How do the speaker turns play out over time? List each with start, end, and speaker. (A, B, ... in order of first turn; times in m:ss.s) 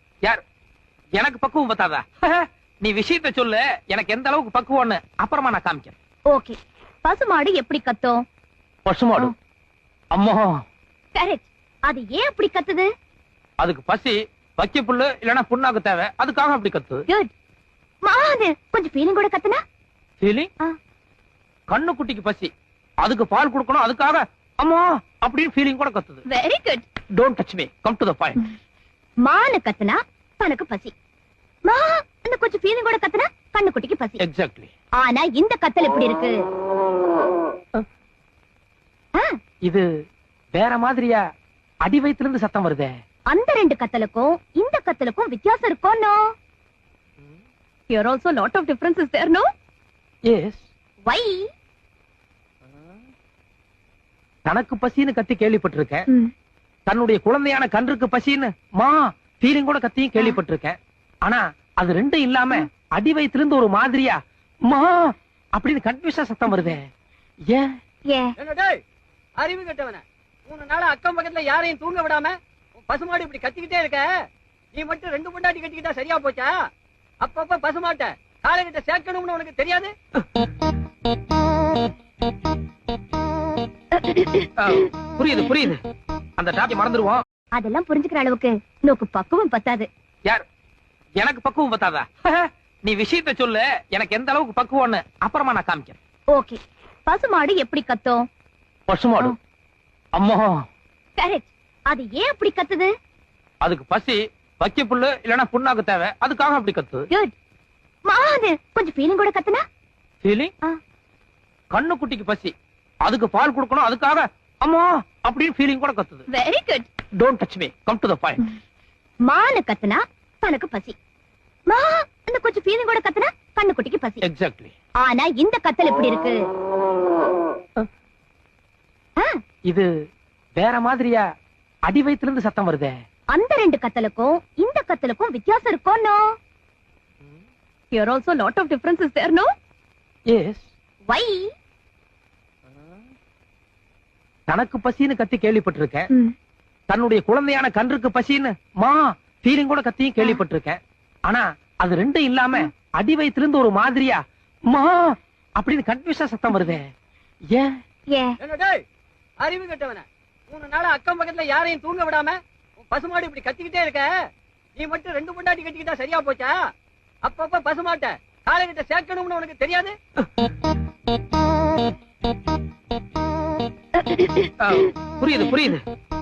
0:01.2-0:05.9 A
0:06.3-0:08.2 B
0:08.8-0:09.3 A
0:10.1-0:10.5 A
0:11.1-0:12.9 B
0:13.6-0:17.0 A
0:18.0-0:19.6 B
0:20.2-0:20.5 A
0:21.7-0:22.5 A
0:23.0-0:26.2 A
0:26.3-0:26.8 B
0:27.2-0:28.4 A
0:29.2-0:30.9 B
0:31.7-0:34.2 B
0:34.2-0:34.7 A
0:35.0-0:36.3 B
0:40.6-0:41.2 A
0:41.8-0:42.9 A
0:43.3-0:46.2 B
0:47.9-0:49.4 B
0:50.3-0:50.6 A
0:51.1-0:51.4 B
0:54.4-0:56.0 A
0:56.9-1:04.2 A
1:04.7-1:06.8 A
1:08.4-1:08.8 C
1:09.4-1:14.1 C
1:14.7-1:16.5 C
1:17.2-1:19.9 C
1:24.0-1:24.4 B
1:24.6-1:25.8 A
1:26.4-1:27.2 A
1:27.6-1:29.9 B
1:31.2-1:36.0 A
1:36.3-1:38.2 B
1:38.9-1:39.3 A
1:40.2-1:40.6 A
1:41.2-1:42.9 B
1:43.6-1:47.0 A
1:48.1-1:49.6 B
1:50.2-1:50.5 A
1:51.7-1:52.5 A
1:53.0-1:56.2 A
1:56.3-1:56.8 B
1:57.2-1:58.4 A
1:59.3-2:00.9 B
2:01.7-2:04.2 B
2:04.2-2:04.7 A
2:05.0-2:06.3 B
2:10.6-2:11.2 A
2:11.9-2:12.9 A
2:13.3-2:16.2 B
2:17.9-2:19.5 B
2:20.3-2:20.6 A
2:21.1-2:21.4 B
2:24.5-2:26.1 A
2:26.9-2:34.2 A
2:34.7-2:36.8 A
2:38.4-2:38.8 C
2:39.4-2:44.1 C
2:44.8-2:46.6 C
2:47.2-2:50.0 C
2:54.6-2:55.8 A